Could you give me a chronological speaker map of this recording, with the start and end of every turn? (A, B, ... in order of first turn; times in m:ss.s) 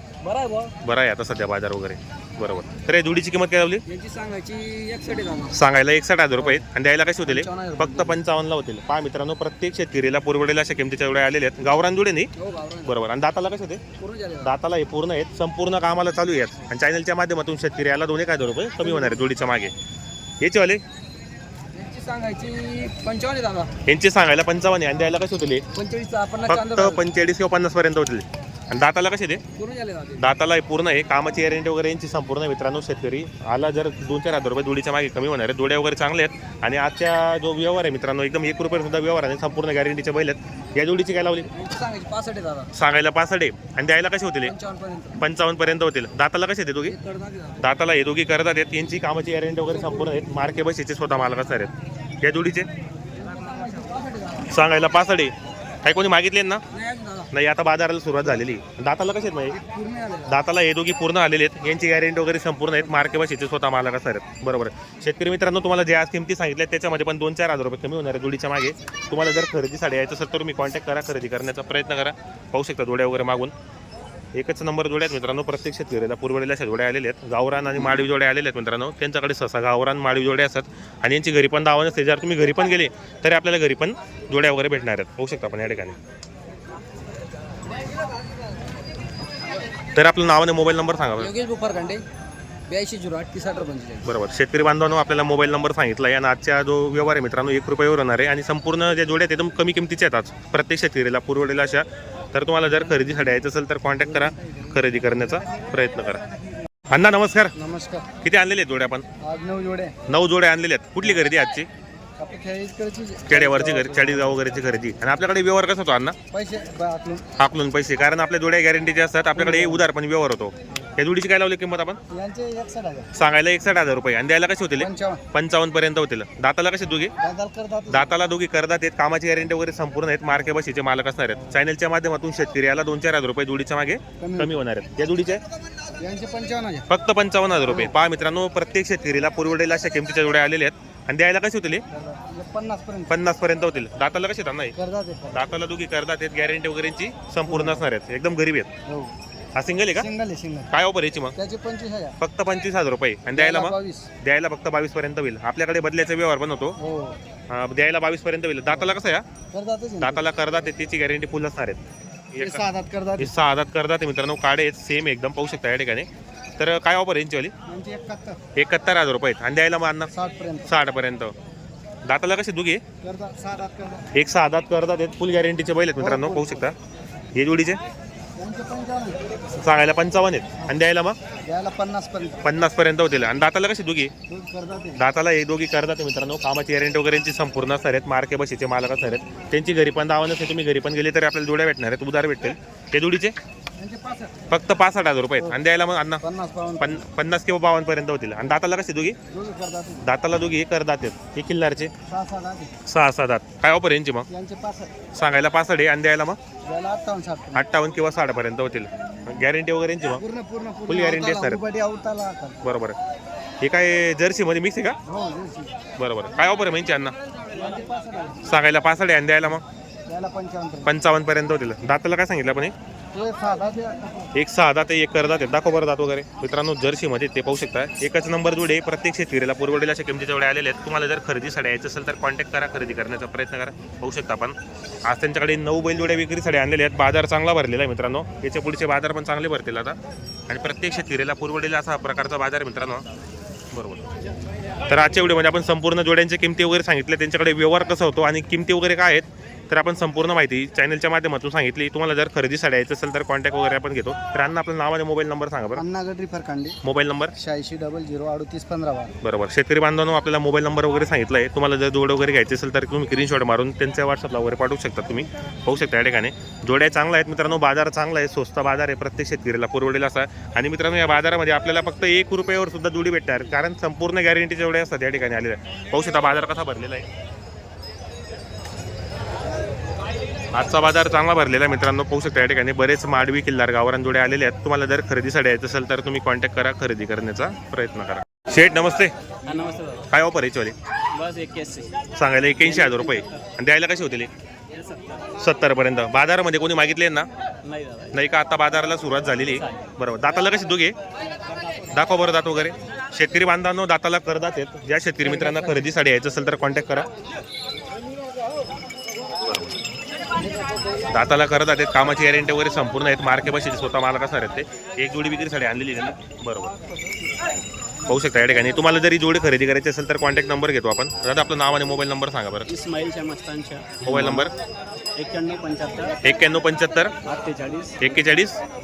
0:00.2-0:00.7 A
0:00.8-0:03.8 B
0:03.9-0:05.6 A
0:04.5-0:04.9 C
0:05.5-0:12.3 B
0:06.4-0:06.6 A
0:07.2-0:08.2 A
0:12.4-0:12.9 A
0:12.8-0:13.8 B
0:14.0-0:14.5 A
0:14.4-0:19.7 B
0:18.8-0:19.3 A
0:20.4-0:20.8 B
0:21.7-0:23.7 A
0:22.1-0:23.5 C
0:23.8-0:25.6 B
0:25.7-0:27.0 A
0:26.4-0:29.4 B
0:29.6-0:30.2 A
0:30.2-0:41.5 B
0:41.5-0:42.7 A
0:42.7-0:44.5 B
0:44.4-0:45.2 A
0:45.2-0:47.0 B
0:46.9-0:47.6 A
0:47.6-0:52.7 B
0:49.6-0:50.2 A
0:53.1-0:54.5 A
0:53.5-0:53.8 C
0:54.4-0:56.6 B
0:56.7-0:57.3 A
0:57.3-0:59.6 B
0:59.5-1:00.4 A
1:00.2-1:13.5 B
1:14.3-1:26.0 B
1:29.9-1:31.3 B
1:31.2-1:32.0 A
1:32.7-1:34.1 A
1:34.0-1:46.2 B
1:44.0-1:44.7 A
1:46.9-1:47.6 B
1:47.5-1:48.2 A
1:48.2-1:49.0 B
1:49.2-1:50.0 A
1:50.1-1:51.7 B
1:52.2-1:54.5 A
1:53.3-1:56.2 B
1:56.3-1:57.3 A
1:57.4-2:02.0 B
1:59.3-1:59.9 A
2:02.1-2:03.1 A
2:03.1-2:07.1 B
2:04.8-2:05.2 A
2:07.2-2:08.2 A
2:07.9-2:15.4 B
2:11.3-2:11.6 A
2:14.2-2:14.6 A
2:16.0-2:16.9 A
2:16.9-2:21.8 B
2:17.6-2:17.9 A
2:21.9-2:23.1 A
2:23.1-2:24.7 B
2:24.7-2:25.5 A
2:25.3-2:28.7 B
2:27.5-2:27.9 A
2:28.8-2:29.1 A
2:29.5-2:30.1 B
2:29.9-2:30.7 A
2:30.7-2:31.3 B
2:31.4-2:32.2 A
2:32.2-2:36.8 B
2:33.3-2:34.1 A
2:36.8-2:37.2 A
2:37.5-2:39.2 B
2:38.7-2:39.0 A
2:39.5-2:40.3 A
2:40.0-2:41.8 B
2:42.3-2:42.6 B
2:42.4-2:43.3 A
2:43.2-2:47.5 B
2:47.7-2:48.4 A
2:48.5-2:50.1 B
2:50.1-2:50.7 A
2:50.7-2:51.3 B
2:52.0-2:52.8 B
2:53.0-2:54.1 A
2:54.1-2:56.7 B
2:56.0-2:56.7 A
2:57.3-2:57.8 B
2:58.4-2:59.3 A
2:59.5-3:01.2 B
3:01.4-3:02.5 A
3:02.4-3:04.1 B
3:04.3-3:05.0 A
3:05.0-3:13.3 B
3:13.8-3:14.5 A
3:14.5-3:16.2 B
3:16.2-3:17.0 A
3:16.8-3:19.2 B
3:19.3-3:20.1 A
3:20.0-3:21.9 B
3:22.0-3:22.7 A
3:22.8-3:24.3 B
3:24.3-3:24.9 A
3:25.1-3:26.4 B
3:26.6-3:27.6 A
3:27.5-3:30.2 B
3:30.2-3:32.6 A
3:30.9-3:31.6 B
3:32.6-3:33.0 B
3:33.6-3:35.0 B
3:35.0-3:35.8 A
3:36.0-3:37.1 B
3:37.5-3:38.4 A
3:38.4-3:39.6 B
3:40.1-3:40.9 A
3:40.8-3:42.7 B
3:43.1-3:44.3 A
3:44.3-4:00.0 B
4:00.5-4:03.0 B
4:03.7-4:04.1 B
4:04.9-4:15.8 B
4:15.7-4:16.8 A
4:16.8-4:17.3 B
4:17.4-4:19.2 A
4:19.2-4:37.0 B
4:40.5-4:49.1 B
4:49.4-4:50.1 C
4:50.1-4:50.7 B
4:51.1-4:52.0 C
4:52.2-4:54.3 B
4:52.6-4:53.4 C
4:54.7-4:55.3 C
4:55.4-4:57.3 B
4:57.6-4:58.2 C
4:58.1-5:01.0 B
4:59.6-4:59.9 C
5:01.9-5:07.1 B
5:05.2-5:05.9 A
5:09.4-5:09.8 B
5:11.1-5:16.7 B
5:18.1-5:22.7 B
5:22.7-5:24.5 C
5:24.0-5:24.5 B
5:25.2-5:26.2 C
5:26.2-5:27.1 B
5:27.2-5:28.0 C
5:28.0-5:28.6 B